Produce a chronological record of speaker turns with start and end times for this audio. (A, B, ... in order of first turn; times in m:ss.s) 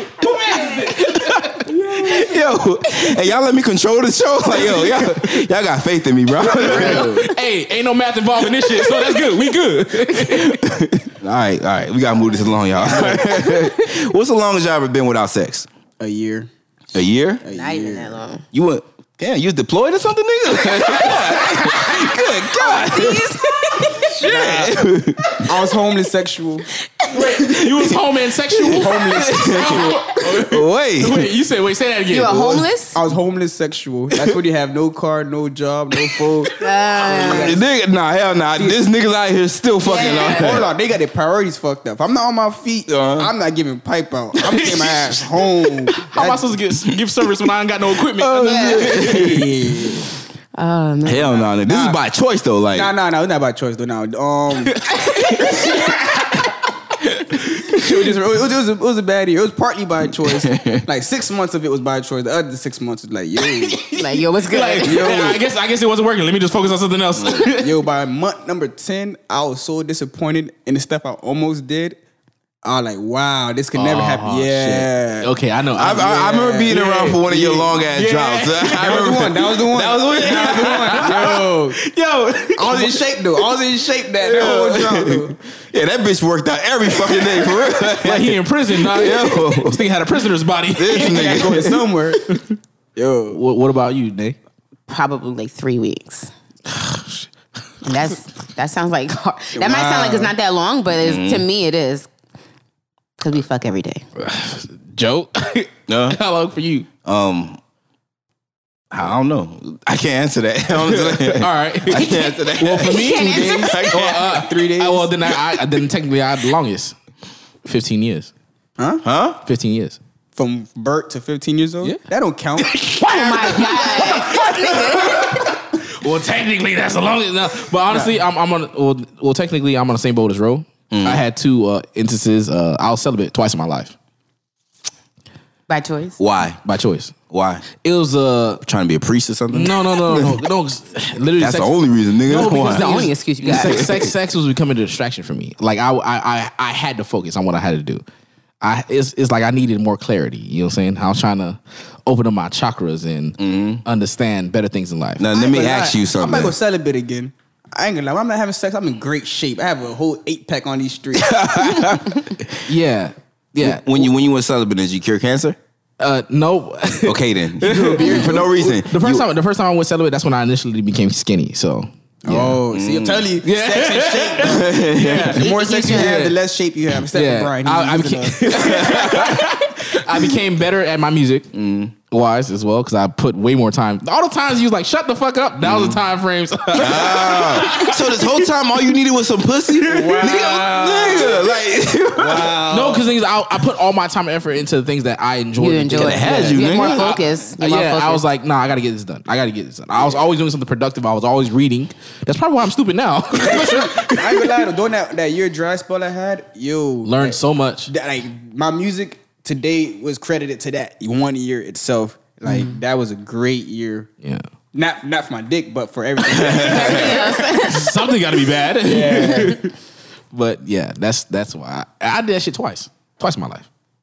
0:00.2-0:01.7 A
0:00.2-0:00.9 B
0:01.0-0:07.2 C
0:01.7-0:02.3 D
0:06.6-0:07.3 D
0:06.6-0:10.6 A
0:10.3-0:15.7 C
0:12.8-0:13.3 B
0:16.0-0:16.5 D
0:16.9-0:17.4 C
0:17.4-0:18.2 D
0:17.5-0:18.4 B
0:18.5-0:23.3 C
0:20.8-0:22.2 A
0:21.7-0:24.7 B
0:24.0-0:25.5 C
0:24.2-0:24.8 D
0:25.4-0:26.7 D
0:27.1-0:32.7 A
0:28.7-0:30.0 D
0:29.1-0:31.3 C
0:32.1-0:33.0 B
0:32.9-0:37.6 D
0:36.6-0:37.6 B
0:37.2-0:40.7 C
0:38.6-0:38.8 D
0:39.8-0:40.6 B
0:40.0-0:46.5 D
0:42.9-0:43.3 C
0:44.4-0:49.5 A
0:48.1-0:49.5 C
0:48.4-0:48.9 B
0:49.0-0:50.1 D
0:50.6-0:51.5 B
0:51.0-0:52.9 C
0:51.5-0:52.0 D
0:52.7-0:56.0 D
0:54.7-0:56.0 A
0:57.3-1:03.8 D
0:57.4-0:57.9 A
1:00.3-1:00.8 C
1:03.5-1:07.8 A
1:03.9-1:05.2 B
1:04.8-1:05.4 D
1:07.2-1:07.5 C
1:07.5-1:12.0 D
1:12.6-1:15.3 D
1:13.7-1:16.8 A
1:15.8-1:21.4 C
1:15.9-1:17.9 D
1:17.9-1:19.1 A
1:18.7-1:21.8 D
1:20.2-1:23.4 A
1:22.6-1:25.4 D
1:24.2-1:29.8 C
1:27.8-1:31.5 A
1:30.7-1:31.8 C
1:30.9-1:32.4 D
1:33.0-1:33.4 D
1:33.3-1:34.4 A
1:34.9-1:36.3 B
1:36.7-1:37.3 A
1:37.8-1:42.1 B
1:39.6-1:40.3 D
1:41.0-1:41.5 C
1:43.2-1:44.0 B
1:44.2-1:46.9 A
1:45.9-1:46.2 C
1:47.0-1:47.6 C
1:48.9-1:54.4 C
1:50.8-1:56.9 A
1:52.0-1:53.8 B
1:53.2-1:55.3 D
1:57.6-1:58.3 A
1:58.8-1:59.0 D
1:59.0-1:59.4 C
1:59.4-2:00.0 A
2:00.4-2:03.0 D
2:02.6-2:13.9 A
2:03.0-2:05.6 B
2:10.9-2:11.2 C
2:15.7-2:16.2 B
2:16.2-2:16.6 C
2:16.6-2:17.2 A
2:17.3-2:17.7 C
2:17.8-2:18.6 A
2:18.6-2:20.4 C
2:19.5-2:28.0 A
2:21.4-2:24.1 C
2:22.4-2:24.0 B
2:28.6-2:35.3 A
2:33.4-2:33.8 C
2:35.2-2:36.6 C
2:35.3-2:41.4 D
2:41.2-2:42.5 C
2:42.6-2:44.1 A
2:43.6-2:45.6 C
2:46.0-2:52.6 A
2:47.0-2:49.3 C
2:47.6-2:48.7 D
2:52.3-2:59.4 D
2:52.7-2:53.3 C
2:53.4-2:54.7 A
2:54.4-2:55.4 C
2:55.2-2:56.4 A
2:55.4-2:56.2 B
2:57.1-3:01.5 A
2:58.5-2:59.5 C
3:01.5-3:01.9 C
3:02.1-3:08.4 A
3:05.6-3:06.0 C
3:06.7-3:12.6 C
3:09.8-3:11.6 D
3:12.2-3:13.1 D
3:12.7-3:24.7 A
3:15.6-3:18.2 B
3:15.9-3:17.2 C
3:23.4-3:34.1 D
3:27.0-3:27.9 A
3:32.5-3:32.7 B
3:34.7-3:37.7 D
3:36.3-3:36.9 C
3:36.6-3:38.0 B
3:36.8-3:39.7 A
3:38.8-3:39.7 D
3:40.3-3:43.7 A